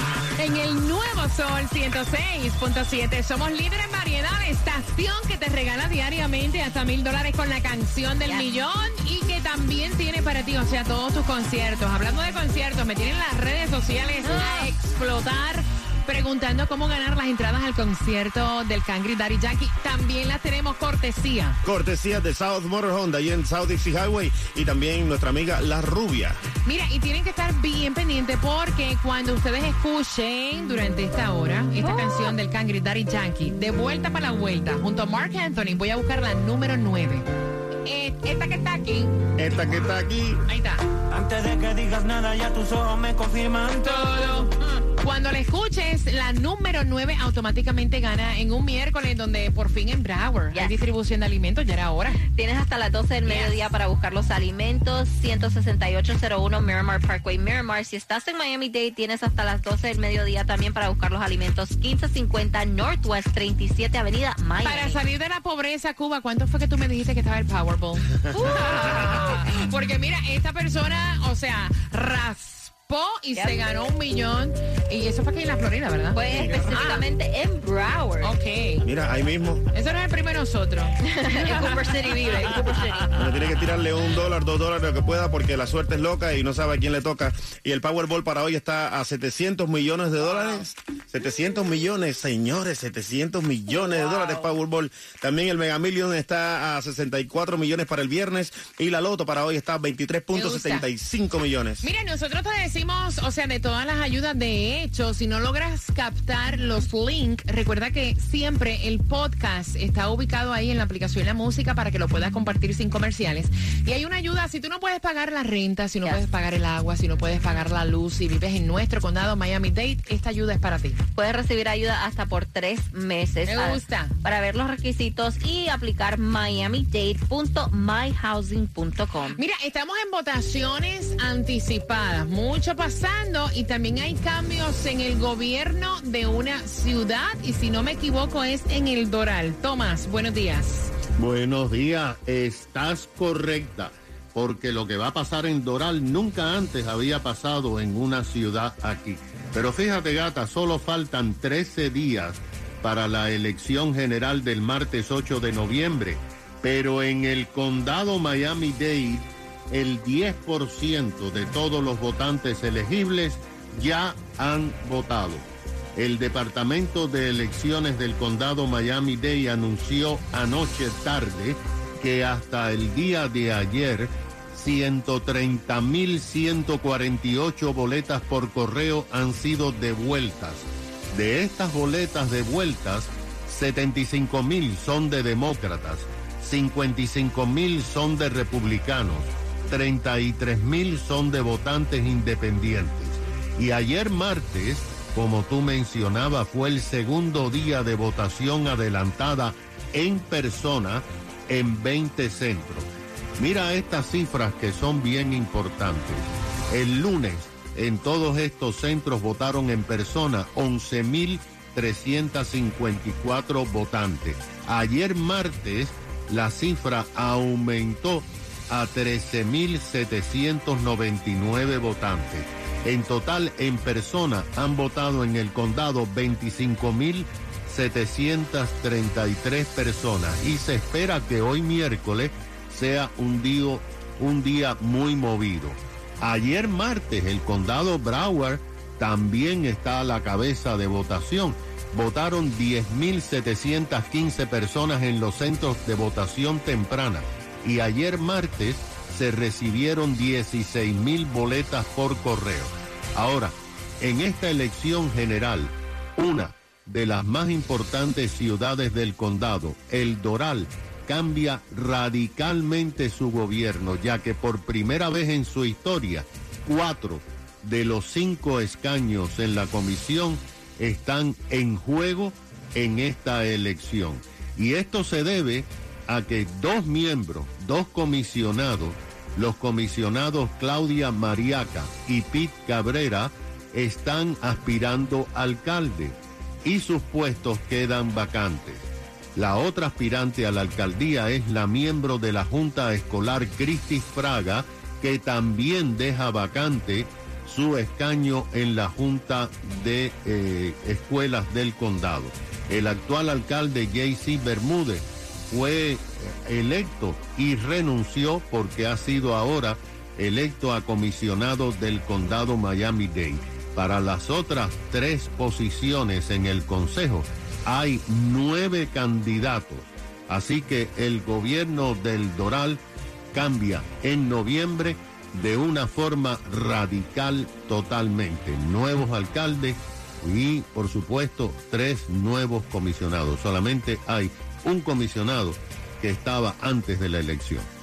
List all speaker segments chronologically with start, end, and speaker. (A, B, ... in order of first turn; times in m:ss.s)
0:00.4-0:21.6 A
0:08.2-0:08.5 B
0:14.2-0:14.7 B
0:21.6-0:26.4 C
0:26.6-0:37.2 A
0:31.8-0:32.3 B
0:37.8-0:39.1 A
0:39.4-0:40.4 C
0:40.4-0:40.8 A
0:41.2-0:43.7 D
0:43.8-0:52.2 A
0:52.3-1:05.0 B
1:04.6-1:08.1 A
1:08.3-1:09.3 B
1:08.7-1:17.0 A
1:13.3-1:13.6 B
1:16.1-1:18.3 B
1:16.2-1:16.8 C
1:18.2-1:18.8 A
1:18.8-1:19.6 C
1:19.7-1:21.1 A
1:21.2-1:23.1 B
1:23.1-1:41.9 C
1:34.0-1:34.4 A
1:40.3-1:40.9 A
1:41.8-2:01.0 A
2:01.2-2:09.4 B
2:03.5-2:04.1 A
2:09.3-2:20.9 A
2:21.2-5:22.8 E
5:23.3-5:37.7 E